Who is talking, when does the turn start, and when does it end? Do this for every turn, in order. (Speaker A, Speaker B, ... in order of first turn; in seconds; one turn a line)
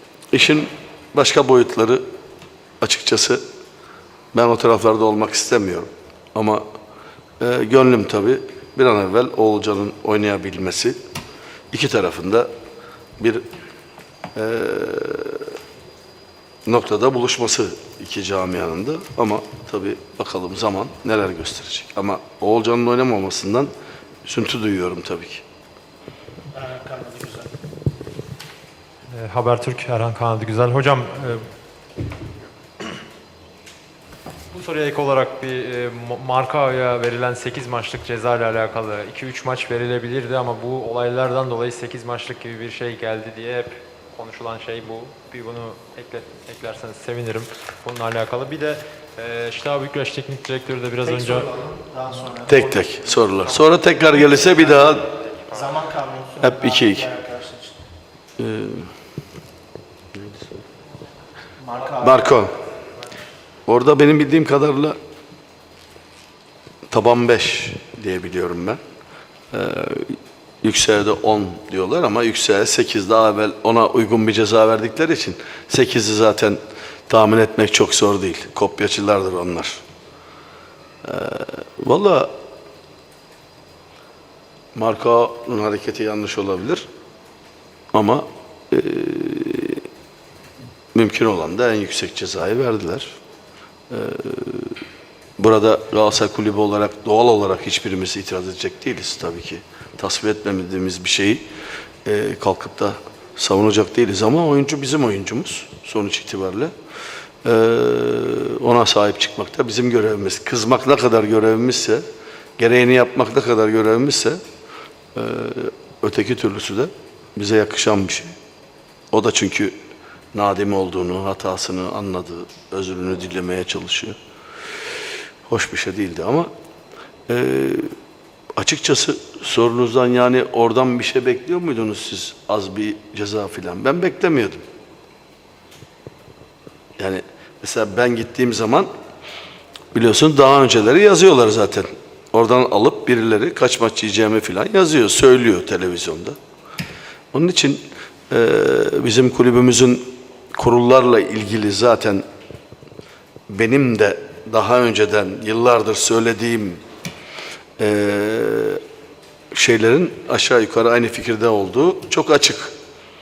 Speaker A: 0.3-2.1
Speaker A: 2.8-3.4
Speaker A: 4.3-6.7
Speaker A: 7.4-11.0
Speaker A: 11.7-12.5
Speaker A: 13.2-13.5
Speaker A: 14.3-15.5
Speaker A: 16.7-23.7
Speaker A: 24.2-25.4
Speaker B: 26.5-27.5
Speaker C: 29.1-31.5
Speaker C: 34.5-51.5
Speaker B: 51.0-57.8
Speaker A: 52.5-55.1
Speaker A: 56.4-57.1
Speaker A: 58.4-58.9
Speaker B: 61.6-62.4
Speaker A: 62.0-62.5
Speaker A: 63.7-65.0
Speaker A: 66.9-68.8
Speaker A: 69.5-79.8
Speaker A: 81.0-82.4
Speaker A: 84.8-86.9
Speaker A: 87.9-89.9
Speaker A: 90.9-93.2
Speaker A: 93.9-94.8
Speaker A: 95.4-101.5
Speaker A: 102.0-106.7
Speaker A: 107.4-112.0
Speaker A: 112.6-114.4
Speaker A: 115.2-118.3
Speaker A: 119.1-119.8
Speaker A: 120.3-124.2
Speaker A: 125.5-126.5
Speaker A: 127.3-127.9
Speaker A: 128.6-134.7
Speaker A: 137.0-138.9
Speaker A: 139.9-146.4
Speaker A: 147.3-152.3
Speaker A: 153.5-156.8
Speaker A: 157.8-158.8
Speaker A: 159.5-162.8